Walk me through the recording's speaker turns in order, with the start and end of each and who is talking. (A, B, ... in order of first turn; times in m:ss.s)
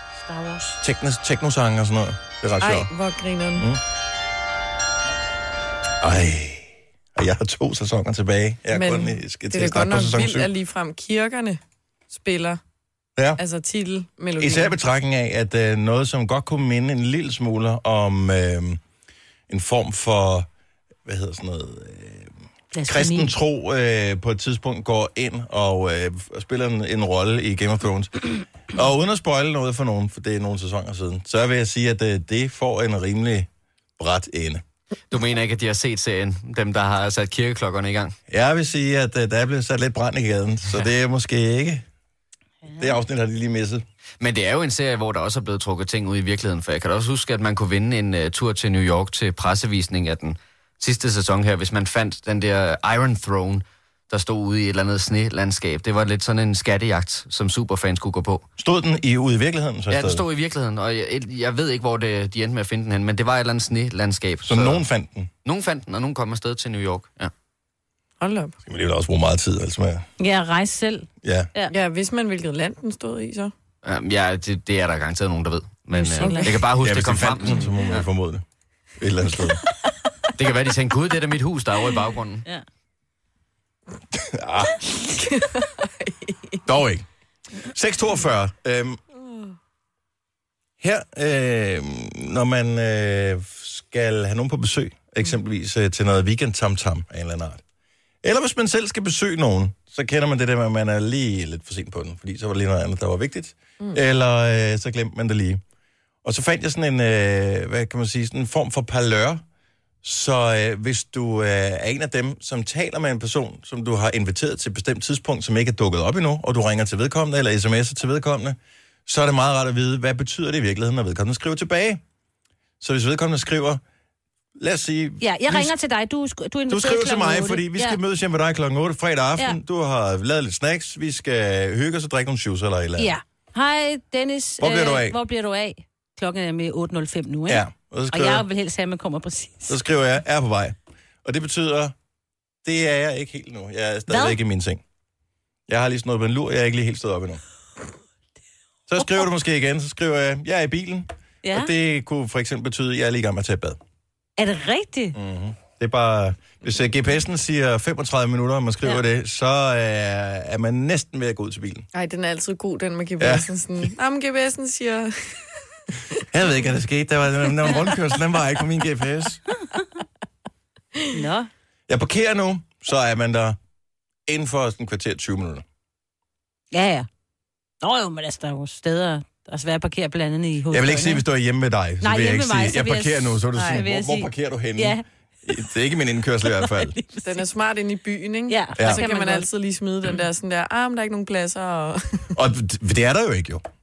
0:00.2-0:00.8 A
0:00.8-0:02.9 B
0:02.6-0:03.7 C
0:06.0-0:10.5 B
0:08.7-0:11.6 C
0:12.1-0:12.6 C
0:13.4-0:14.7 C
0:14.4-0:18.8 B
0:19.5-0:20.5 B
0:21.0-0:22.3 B
0:22.7-0:23.3 A
0:22.9-0:34.6 B
0:35.1-0:38.2 D
0:38.3-0:41.8 B
0:42.6-0:43.0 A
0:42.7-0:43.8 B
0:44.2-0:58.4 D
0:58.6-1:00.2 B
0:59.9-1:04.8 D
1:04.4-1:05.3 B
1:05.4-1:07.3 D
1:08.2-1:08.6 C
1:08.6-1:10.1 B
1:10.2-1:11.7 A
1:11.2-1:11.5 B
1:11.7-1:13.5 C
1:13.8-1:18.0 D
1:15.9-1:16.6 A
1:16.2-1:16.6 C
1:16.8-1:18.4 B
1:19.0-1:19.6 B
1:20.4-1:22.4 D
1:24.1-1:24.8 B
1:25.2-1:26.6 C
1:26.6-1:27.1 B
1:27.7-1:29.0 B
1:29.2-1:29.5 C
1:30.8-1:37.6 B
1:38.2-1:45.6 B
1:46.2-1:49.4 B
1:50.0-2:02.0 B
2:02.8-2:03.8 B
2:04.6-2:05.7 B
2:05.2-2:08.0 A
2:06.7-2:13.1 B
2:13.0-2:19.8 A
2:14.6-2:15.2 B
2:17.5-2:18.4 B
2:19.7-2:21.9 B
2:22.6-2:24.8 B
2:24.1-2:24.4 A
2:25.7-2:27.4 B
2:28.9-2:33.8 B
2:31.4-2:31.7 A
2:34.4-2:35.1 A
2:35.1-2:41.9 B
2:41.9-2:45.5 C
2:43.2-2:43.9 B
2:46.3-2:49.4 B
2:47.6-2:47.9 C
2:51.1-2:51.5 A
2:51.9-2:53.6 B
2:54.3-2:55.6 B
2:56.7-2:57.1 A
2:57.8-3:01.2 A
3:00.7-3:07.0 B
3:02.0-3:05.0 A
3:03.6-3:03.8 C
3:06.4-3:07.4 A
3:07.2-3:12.3 C
3:08.5-3:09.5 A
3:08.8-3:09.0 B
3:12.3-3:13.6 B